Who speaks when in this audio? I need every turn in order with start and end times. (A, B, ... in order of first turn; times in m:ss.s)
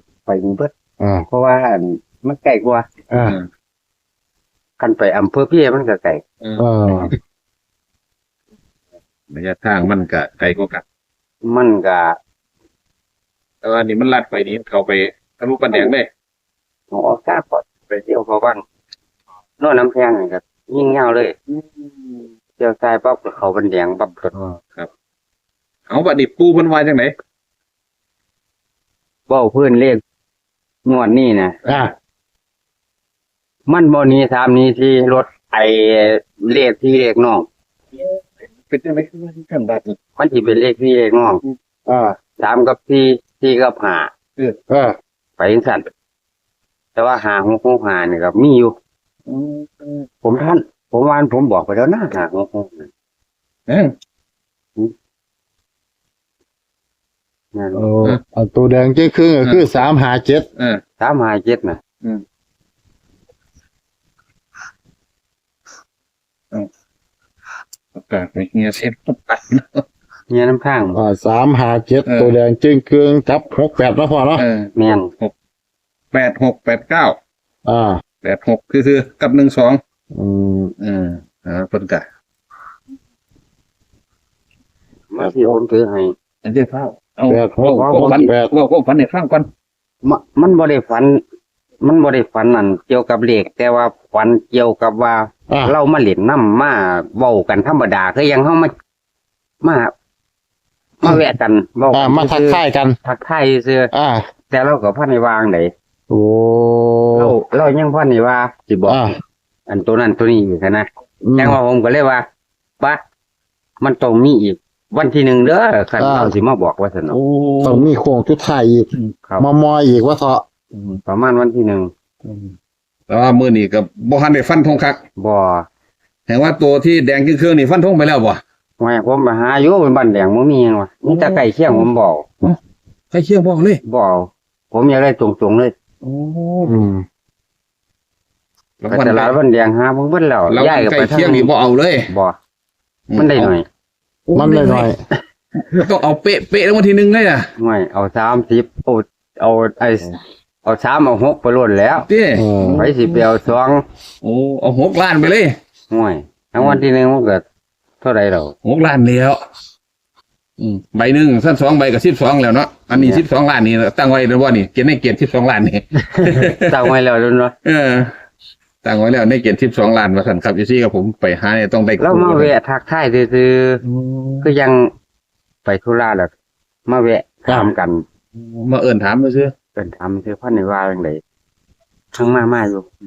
0:00.2-0:00.7 A
0:01.0-0:01.2 B
0:01.3-0:02.9 A
0:03.1-0:03.4 B
0:04.8-0:06.2 A
0:06.6-0:07.1 B
0:09.3-0:10.8 C
0:11.4-0:12.2 A
0:13.6-0:16.1 C
0:16.9-0:18.6 A
0:19.6-0:21.3 A
0:21.5-0:22.2 C
0:22.6-0:24.6 A
0:25.9-0:27.1 C
0:29.3-0:30.0 A
0:30.8-0:31.6 A
0:31.7-0:31.9 B
0:33.7-0:37.5 A
0:37.9-0:40.0 C
0:40.2-0:41.4 A
0:41.9-0:42.1 B
0:42.4-0:44.1 A
0:44.7-0:44.9 B
0:45.4-0:45.8 A
0:47.0-0:48.7 A
0:49.3-0:50.0 C
0:50.2-0:52.9 A
0:53.7-0:53.9 C
0:57.5-0:57.9 A
0:57.7-1:00.4 B
1:01.0-1:01.8 A
1:07.9-1:09.8 C
1:10.3-1:11.0 A
1:10.9-1:14.4 B
1:12.0-1:12.3 C
1:14.4-1:15.3 C
1:14.8-1:15.1 A
1:16.1-1:17.2 C
1:17.6-1:18.0 B
1:18.2-1:19.8 C
1:20.1-1:20.7 B
1:20.8-1:22.0 C
1:25.1-1:26.1 A
1:25.2-1:25.6 B
1:26.4-1:29.5 C
1:27.3-1:28.5 B
1:27.7-1:28.3 A
1:30.0-1:31.2 A
1:31.8-1:38.7 A
1:39.6-1:39.9 A
1:41.0-1:43.9 A
1:41.9-1:43.0 B
1:43.9-1:44.2 B
1:44.5-1:45.7 A
1:46.1-1:47.3 B
1:47.1-1:49.0 A
1:48.9-1:49.1 B
1:49.7-1:52.2 A
1:51.2-1:51.6 B
1:53.8-1:57.2 A
1:56.0-1:56.3 B
1:57.1-1:57.9 C
1:57.6-2:00.4 B
2:00.7-2:01.0 C
2:01.0-2:01.9 A
2:02.2-2:02.5 C
2:03.1-2:05.0 C
2:05.2-2:05.6 A
2:06.3-2:08.4 C
2:08.8-2:12.2 A
2:11.1-2:11.9 C
2:13.1-2:13.8 C
2:13.8-2:15.7 A
2:16.0-2:16.7 C
2:16.6-2:17.0 B
2:18.8-2:19.4 C
2:18.9-2:21.5 A
2:20.5-2:22.1 C
2:22.1-2:22.4 A
2:23.1-2:23.5 C
2:23.2-2:23.6 A
2:24.3-2:24.9 C
2:24.3-2:25.0 B
2:25.7-2:27.4 C
2:27.6-2:32.0 A
2:32.0-2:33.3 C
2:32.3-2:32.9 B
2:32.7-2:33.8 A
2:34.2-2:35.5 C
2:35.9-2:37.4 A
2:36.6-2:36.8 C
2:38.0-2:38.5 A
2:38.6-2:39.4 C
2:40.6-2:46.8 C
2:42.9-2:43.2 A
2:46.0-2:47.5 A
2:47.6-2:48.1 C
2:48.8-2:52.5 C
2:52.0-2:53.8 A
2:53.8-2:54.5 C
2:54.4-2:54.9 A
2:55.6-2:56.3 A
2:56.9-2:58.0 A
2:57.5-2:57.7 B
2:58.3-2:59.5 C
2:59.8-3:01.2 A
3:02.1-3:02.8 A